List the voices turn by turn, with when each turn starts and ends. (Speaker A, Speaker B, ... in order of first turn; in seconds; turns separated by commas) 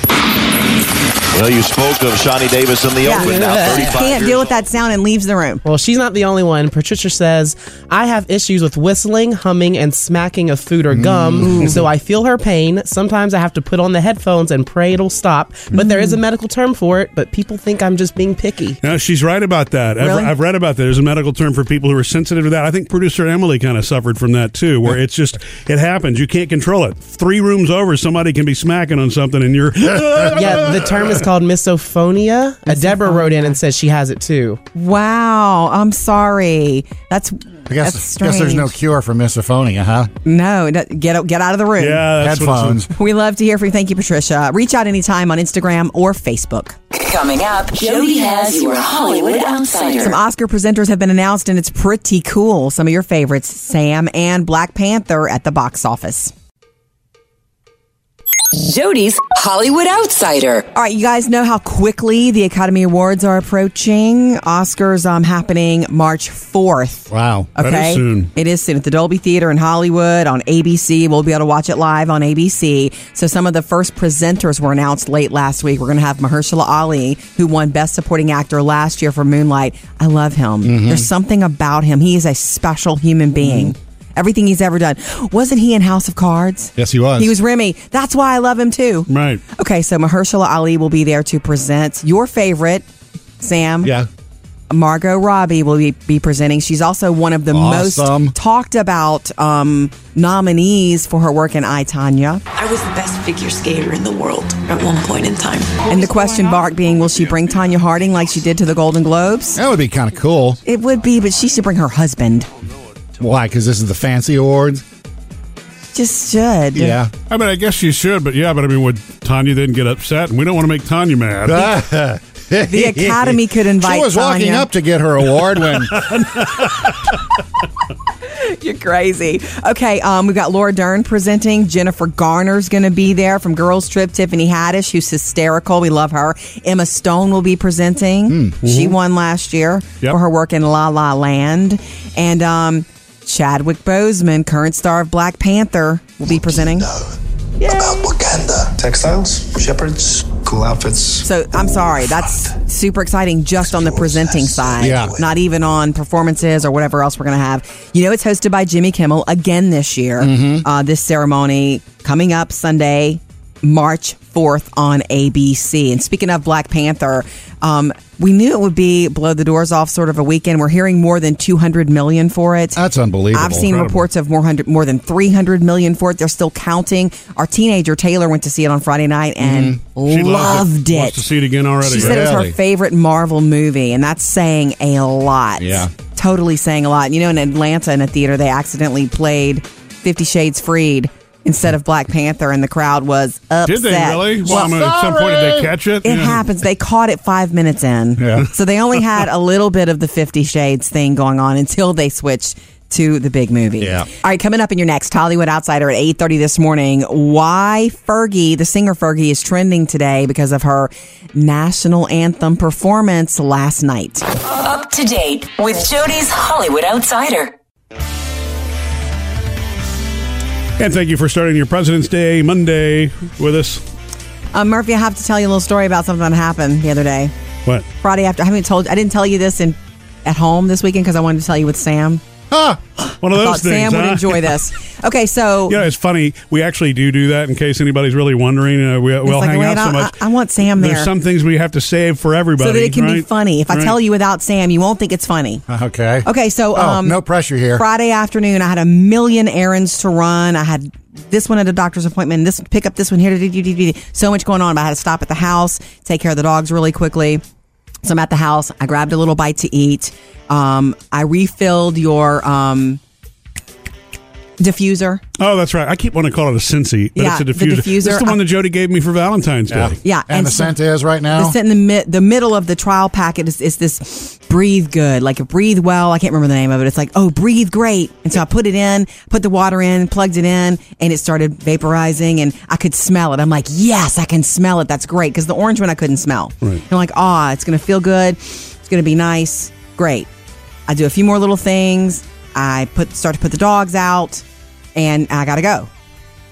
Speaker A: 1.3-4.5, Speaker B: 3.0-5.6, Speaker C: 3.0-4.1, Speaker C: 5.6-18.8, Speaker D: 10.9-11.6, Speaker B: 11.4-11.8, Speaker B: 15.7-16.2, Speaker E: 18.8-30.9, Speaker B: 20.0-20.3, Speaker D: 29.9-30.5, Speaker C: 30.3-34.6, Speaker B: 32.7-33.6, Speaker B: 34.7-38.7, Speaker D: 37.7-40.1, Speaker B: 40.2-42.0, Speaker E: 41.8-42.9, Speaker D: 42.2-42.9, Speaker B: 42.9-46.8, Speaker F: 46.9-50.2, Speaker B: 50.0-56.3, Speaker F: 58.5-60.6, Speaker B: 60.7-92.8, Speaker D: 67.1-67.5, Speaker E: 67.6-68.3, Speaker D: 80.6-81.1, Speaker D: 86.8-87.3, Speaker E: 89.1-89.4, Speaker B: 93.4-93.9, Speaker D: 93.8-94.1, Speaker B: 94.7-102.4, Speaker D: 97.5-98.3, Speaker G: 102.5-106.4, Speaker B: 105.9-109.6, Speaker D: 109.5-110.6, Speaker B: 110.7-112.5, Speaker D: 113.2-114.8, Speaker B: 115.9-117.0, Speaker D: 116.7-117.1, Speaker E: 117.3-121.8, Speaker D: 121.4-126.2, Speaker B: 122.6-124.7, Speaker E: 125.8-126.8, Speaker B: 128.3-146.9, Speaker D: 138.3-138.6, Speaker E: 138.6-138.9, Speaker H: 146.2-151.3, Speaker B: 151.2-172.8, Speaker H: 152.2-152.5, Speaker H: 153.6-155.2, Speaker D: 154.8-155.2, Speaker D: 160.2-160.6, Speaker D: 172.8-173.7, Speaker B: 173.3-181.2, Speaker E: 173.6-174.0, Speaker D: 179.4-179.8, Speaker E: 180.1-182.3, Speaker B: 181.8-194.7, Speaker D: 181.9-182.6, Speaker D: 185.6-185.9, Speaker E: 193.7-196.4, Speaker D: 194.4-195.7, Speaker B: 196.0-214.2, Speaker D: 198.2-198.5, Speaker D: 203.8-204.1, Speaker F: 214.4-217.5, Speaker E: 220.8-223.8, Speaker B: 224.5-227.3, Speaker B: 228.0-232.2, Speaker D: 232.5-232.8, Speaker E: 233.2-234.6, Speaker B: 233.3-235.8, Speaker E: 235.7-240.2, Speaker B: 239.2-241.1, Speaker E: 240.8-243.9, Speaker B: 242.6-245.6, Speaker D: 245.7-247.8, Speaker B: 246.2-247.2, Speaker B: 247.7-257.4, Speaker B: 258.0-263.0, Speaker B: 264.6-265.2, Speaker E: 265.4-269.9, Speaker B: 267.2-268.4, Speaker D: 269.7-271.6, Speaker B: 270.0-270.8, Speaker B: 271.3-290.3, Speaker B: 290.9-294.4, Speaker B: 294.9-295.9